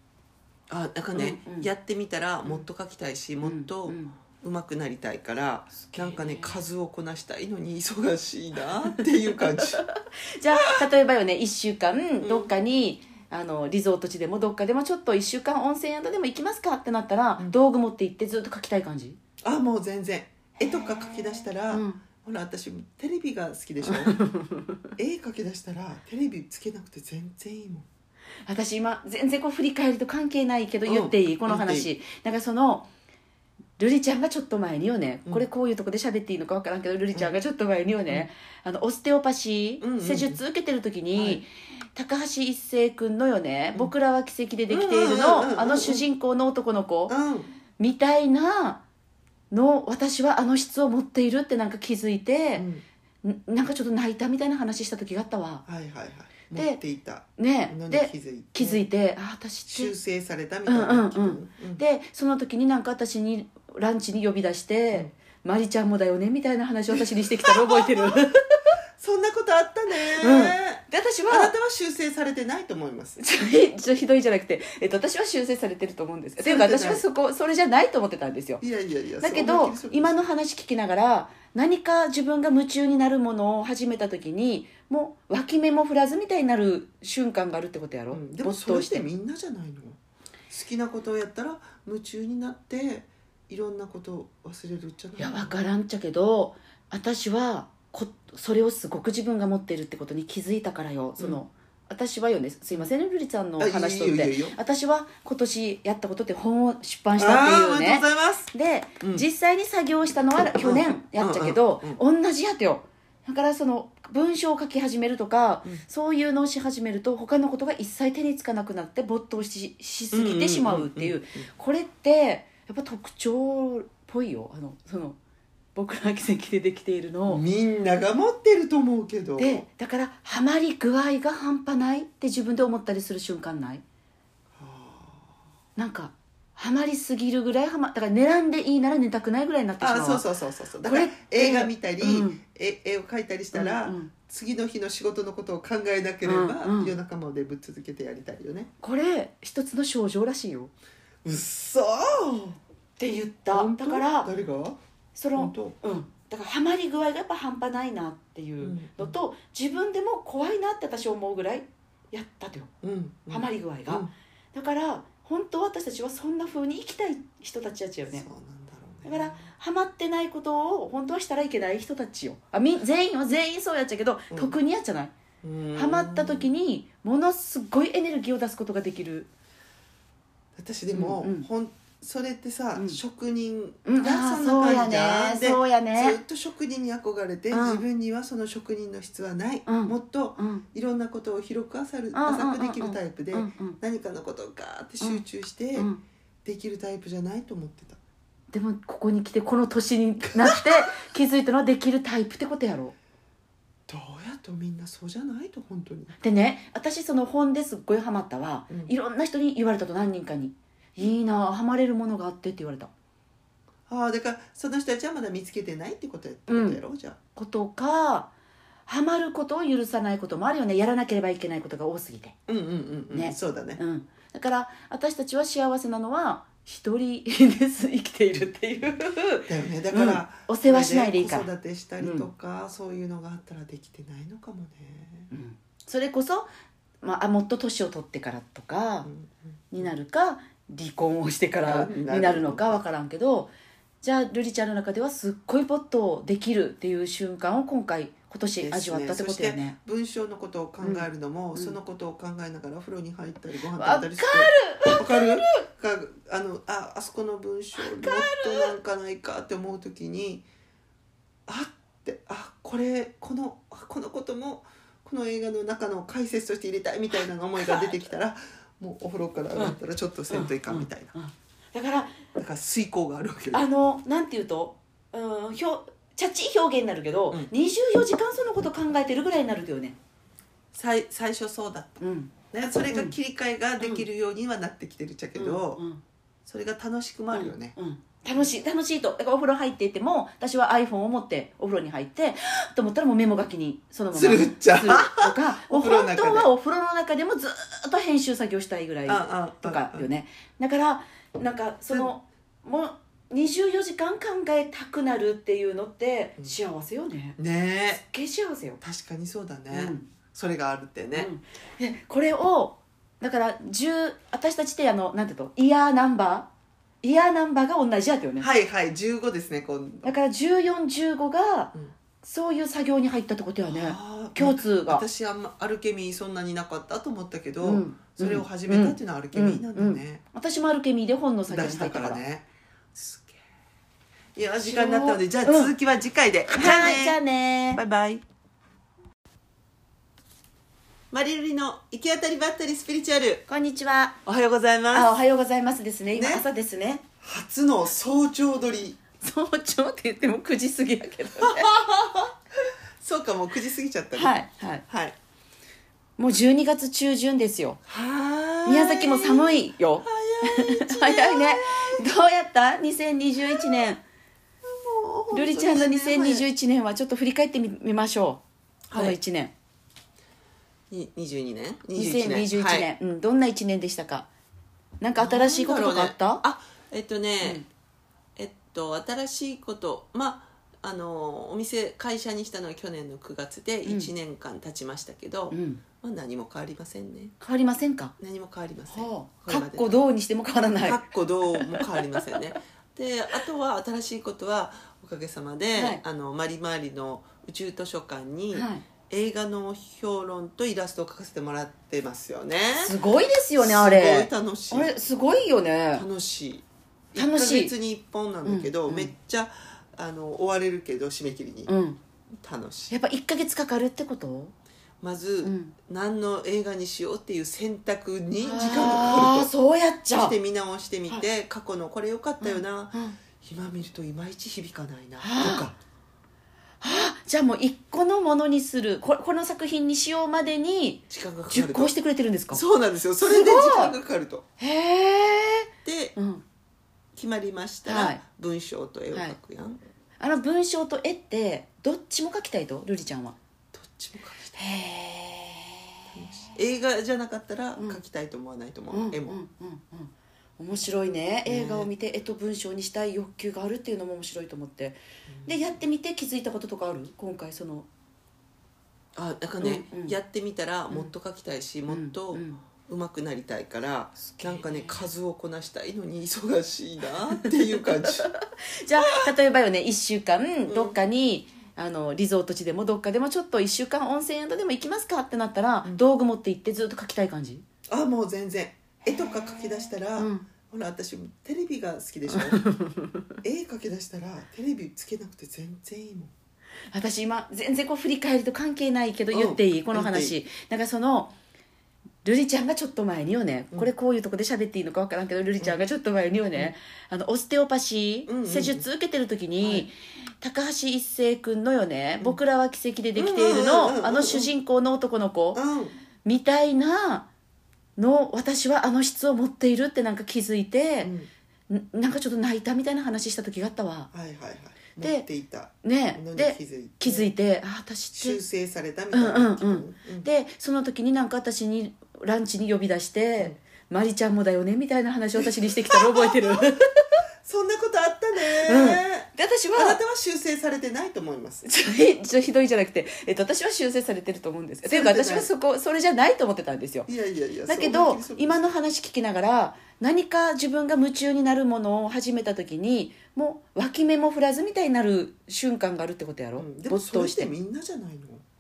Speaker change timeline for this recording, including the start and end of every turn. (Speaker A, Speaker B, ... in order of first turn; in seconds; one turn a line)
Speaker A: 0.7-9.8
Speaker B: 1.1-1.7
Speaker B: 3.4-4.2
Speaker B: 5.9-6.6
Speaker B: 8.6-19.2
Speaker A: 12.2-12.5
Speaker A: 19.4-24.1
Speaker B: 20.6-22.0
Speaker B: 23.9-24.9
Speaker A: 25.0-27.9
Speaker B: 28.5-32.9
Speaker A: 30.9-31.9
Speaker B: 33.8-47.1
Speaker A: 39.8-40.4
Speaker A: 41.1-41.4
Speaker A: 44.7-46.0
Speaker A: 47.1-47.5
Speaker B: 47.8-48.8
Speaker B: 49.5-52.7
Speaker A: 52.6-52.8
Speaker B: 53.2-55.6
Speaker A: 55.7-58.8
Speaker B: 56.5-56.8
Speaker B: 57.4-59.9
Speaker A: 59.7-61.8
Speaker B: 60.7-68.6
Speaker A: 66.9-68.2
Speaker A: 69.0-73.2
Speaker B: 70.2-71.5
Speaker B: 73.2-78.6
Speaker A: 76.4-77.0
Speaker A: 78.6-80.2
Speaker B: 79.2-89.1
Speaker A: 88.1-90.0
Speaker A: 90.5-95.5
Speaker B: 95.2-125.2
Speaker A: 103.6-104.6
Speaker A: 107.2-109.2
Speaker A: 110.6-112.0
Speaker A: 120.1-121.5
Speaker B: 125.8-127.4
Speaker A: 127.3-129.6
Speaker B: 129.4-133.8
Speaker A: 134.6-135.3
Speaker B: 135.8-140.2
Speaker A: 139.8-148.7
Speaker B: 140.8-142.4
Speaker B: 143.5-144.1
Speaker B: 146.2-147.0
Speaker B: 148.8-150.7
Speaker A: 151.2-152.6
Speaker B: 153.0-154.3
Speaker A: 153.5-154.8
Speaker B: 155.2-162.7
Speaker A: 155.4-155.8
Speaker A: 158.6-159.1
Speaker A: 162.8-164.1
Speaker B: 163.3-168.3
Speaker A: 168.1-169.5
Speaker B: 169.1-175.1
Speaker A: 174.3-174.6
Speaker A: 175.4-176.5
Speaker B: 175.8-179.3
Speaker A: 180.6-195.9
Speaker B: 180.9-181.5
Speaker B: 183.8-186.2
Speaker B: 187.5-187.8
Speaker B: 189.7-190.6
Speaker B: 192.1-193.8
Speaker B: 195.8-196.0
Speaker A: 196.4-198.0
Speaker B: 198.5-202.9
Speaker A: 203.9-206.2
Speaker B: 206.2-212.9
Speaker A: 213.9-217.2
Speaker B: 216.5-216.8
Speaker B: 217.4-218.3
Speaker B: 218.9-222.4
Speaker A: 222.5-223.8
Speaker B: 223.1-232.3
Speaker A: 229.5-235.3
Speaker B: 235.3-236.5
Speaker B: 237.0-239.1
Speaker A: 239.0-239.9
Speaker B: 239.7-243.5
Speaker A: 241.6-242.8
Speaker B: 244.0-249.8
Speaker A: 248.6-260.5
Speaker B: 250.8-251.8
Speaker B: 253.8-255.5
Speaker B: 257.8-258.7
Speaker A: 261.5-271.1
Speaker B: 267.6-267.9
Speaker B: 270.3-272.2
Speaker A: 272.4-273.6
Speaker B: 273.5-280.0
Speaker A: 280.7-285.8
Speaker B: 282.0-282.3
Speaker B: 282.9-283.1
Speaker B: 285.4-286.0
Speaker A: 286.5-287.8
Speaker B: 287.3-307.4
Speaker A: 294.1-296.5
Speaker A: 299.1-300.1
Speaker A: 307.4-308.1
Speaker B: 308.1-308.8
Speaker A: 308.8-311.3
Speaker B: 309.7-310.1
Speaker B: 311.1-316.5
Speaker B: 317.0-318.5
Speaker A: 318.4-320.1
Speaker B: 320.1-325.0
Speaker A: 323.7-330.2
Speaker B: 327.6-332.2
Speaker A: 331.5-333.4
Speaker A: 334.4-337.2
Speaker B: 334.6-335.7
Speaker B: 336.5-337.8
Speaker A: 337.7-338.2
Speaker A: 341.1-343.4
Speaker B: 343.5-344.2
Speaker A: 344.3-345.1
Speaker B: 344.9-347.0
Speaker A: 346.1-346.4
Speaker A: 347.2-349.0
Speaker B: 349.2-351.7
Speaker A: 351.4-352.3
Speaker A: 353.0-354.4
Speaker B: 354.1-354.8
Speaker A: 354.9-355.2
Speaker B: 356.2-357.8
Speaker A: 357.9-362.0
Speaker B: 358.7-364.0
Speaker A: 363.4-363.9
Speaker A: 364.6-366.5
Speaker B: 365.3-368.4
Speaker A: 368.9-369.2
Speaker B: 368.9-369.5
Speaker A: 370.9-372.9
Speaker B: 371.9-374.3
Speaker B: 375.0-376.4
Speaker A: 375.2-377.6
Speaker A: 378.4-387.3
Speaker B: 383.9-384.1
Speaker B: 385.5-385.8
Speaker B: 387.4-388.1
Speaker A: 388.2-390.0
Speaker B: 388.9-391.0
Speaker A: 390.8-402.9
Speaker B: 391.6-391.9
Speaker B: 395.8-396.0
Speaker B: 398.5-398.8
Speaker B: 402.8-406.1
Speaker A: 403.6-404.9
Speaker A: 405.9-411.7
Speaker B: 407.2-407.7
Speaker B: 408.4-409.1
Speaker B: 411.7-412.0
Speaker A: 412.4-413.0
Speaker B: 412.9-414.5
Speaker A: 415.0-419.5
Speaker B: 415.4-415.8
Speaker B: 418.4-420.4
Speaker A: 420.1-425.8
Speaker B: 422.4-423.2
Speaker B: 425.2-425.7
Speaker B: 426.8-432.6
Speaker A: 431.1-431.9
Speaker A: 432.5-434.4
Speaker B: 433.2-433.9
Speaker B: 434.6-436.4
Speaker A: 435.8-436.2
Speaker A: 437.1-439.8
Speaker B: 437.9-438.2
Speaker B: 440.2-443.4
Speaker A: 443.7-444.6
Speaker B: 444.6-446.4
Speaker A: 446.1-449.4
Speaker B: 448.9-457.9
Speaker A: 451.5-451.9
Speaker A: 455.3-455.7
Speaker A: 459.2-468.3
Speaker B: 459.6-460.1
Speaker B: 461.9-462.6
Speaker B: 464.4-465.0
Speaker B: 467.4-477.6
Speaker A: 469.0-469.3
Speaker A: 470.7-471.0
Speaker A: 477.9-482.6
Speaker B: 480.2-480.5
Speaker B: 482.3-483.3
Speaker A: 483.4-486.3
Speaker B: 486.9-491.3
Speaker A: 489.3-490.4
Speaker B: 492.2-505.6
Speaker A: 498.3-498.9
Speaker A: 499.6-499.9
Speaker A: 503.1-504.5
Speaker A: 505.6-505.9
Speaker B: 506.2-507.3
Speaker B: 508.0-511.1
Speaker A: 511.0-511.3
Speaker B: 511.7-514.1
Speaker A: 514.1-517.3
Speaker B: 515.0-515.3
Speaker B: 515.8-518.4
Speaker A: 518.1-520.3
Speaker B: 519.1-527.0
Speaker A: 525.4-526.6
Speaker A: 527.4-531.7
Speaker B: 528.6-530.0
Speaker B: 531.6-537.1
Speaker A: 534.9-535.5
Speaker A: 537.1-538.7
Speaker B: 537.7-547.5
Speaker A: 546.6-548.4